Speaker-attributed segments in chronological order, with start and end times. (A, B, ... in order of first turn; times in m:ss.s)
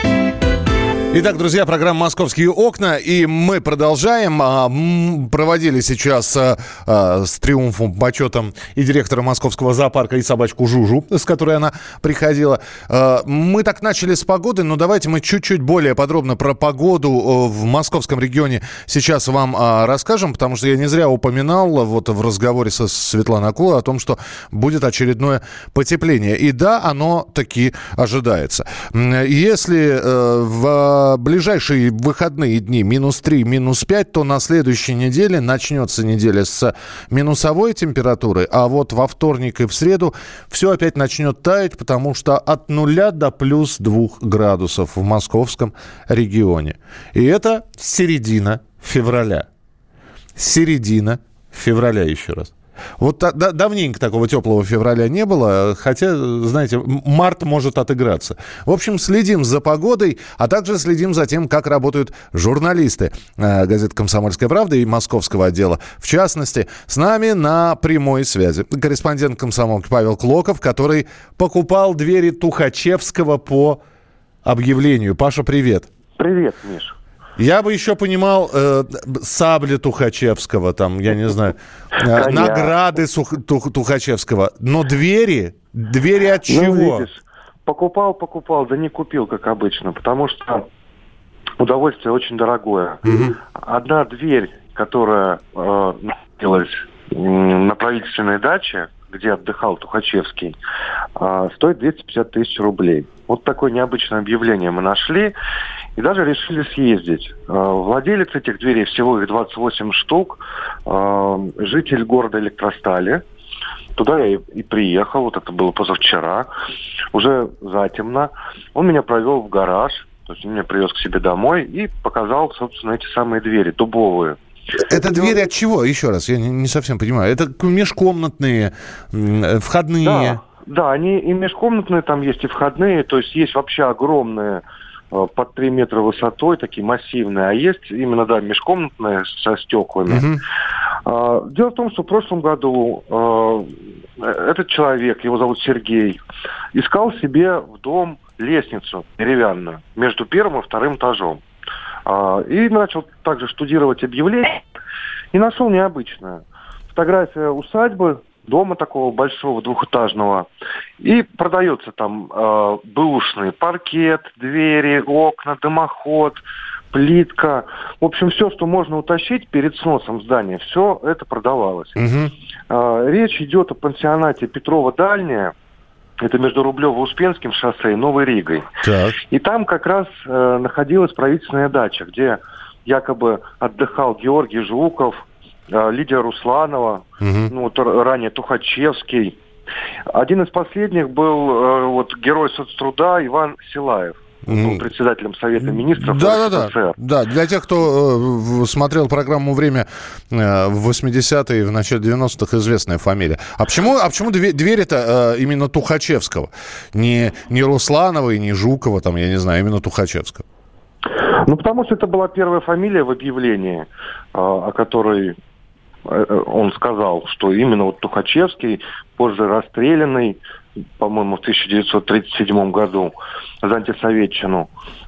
0:01.1-0:49.4 A
0:50.4-1:13.8 A
1:14.4-1:15.9 A
1:16.2-1:17.0 B
1:17.4-1:27.0 A
1:22.0-1:22.7 B
1:26.5-1:30.6 B
1:31.6-1:40.5 B
1:33.0-1:33.3 A
1:41.2-1:45.3 B
1:46.0-1:53.2 B
1:54.0-1:56.5 B
1:57.1-2:04.4 B
2:04.8-2:10.4 A
2:04.9-2:05.4 B
2:10.0-2:20.2 B
2:20.1-2:20.4 A
2:21.0-2:26.2 B
2:26.7-2:31.4 B
2:32.0-2:34.6 B
2:35.3-2:40.5 B
2:41.0-2:46.4 B
2:46.9-2:52.0 B
2:52.0-2:52.3 A
2:52.7-2:55.5 B
2:56.2-2:58.7 B
2:58.8-2:59.2 A
2:59.3-3:09.4 B
3:07.2-3:07.5 A
3:10.1-3:17.0 B
3:14.5-3:14.8 A
3:15.7-3:30.4 A
3:31.2-3:35.3 B
3:36.0-3:40.4 B
3:41.0-3:44.7 B